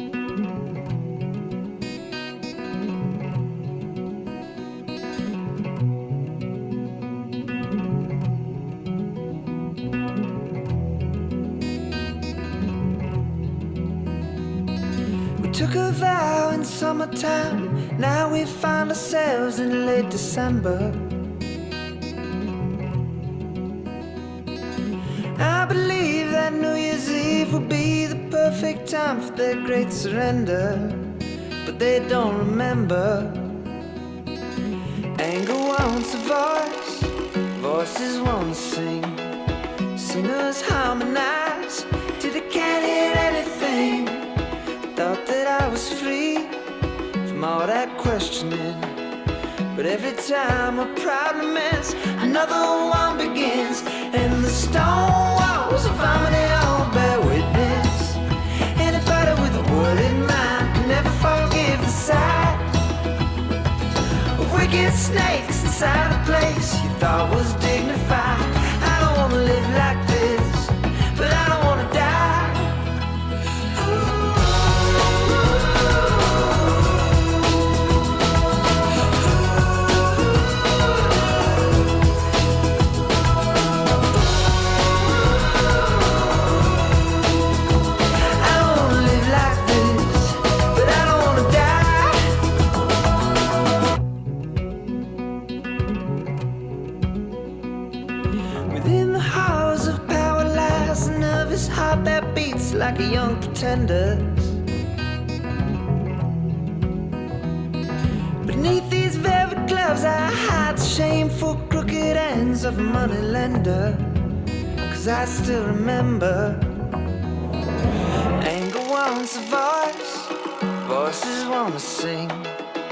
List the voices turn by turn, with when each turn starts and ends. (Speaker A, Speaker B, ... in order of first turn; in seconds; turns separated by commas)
Speaker A: 15.4-21.1, Speaker A: 25.4-31.1, Speaker A: 31.6-33.5, Speaker A: 35.2-39.2, Speaker A: 39.9-44.3, Speaker A: 44.9-46.6, Speaker A: 47.2-49.0, Speaker A: 49.7-58.2, Speaker A: 58.8-62.7, Speaker A: 64.3-72.8, Speaker A: 88.2-92.3, Speaker A: 98.7-104.6, Speaker A: 108.4-114.2, Speaker A: 114.8-116.8, Speaker A: 118.4-122.5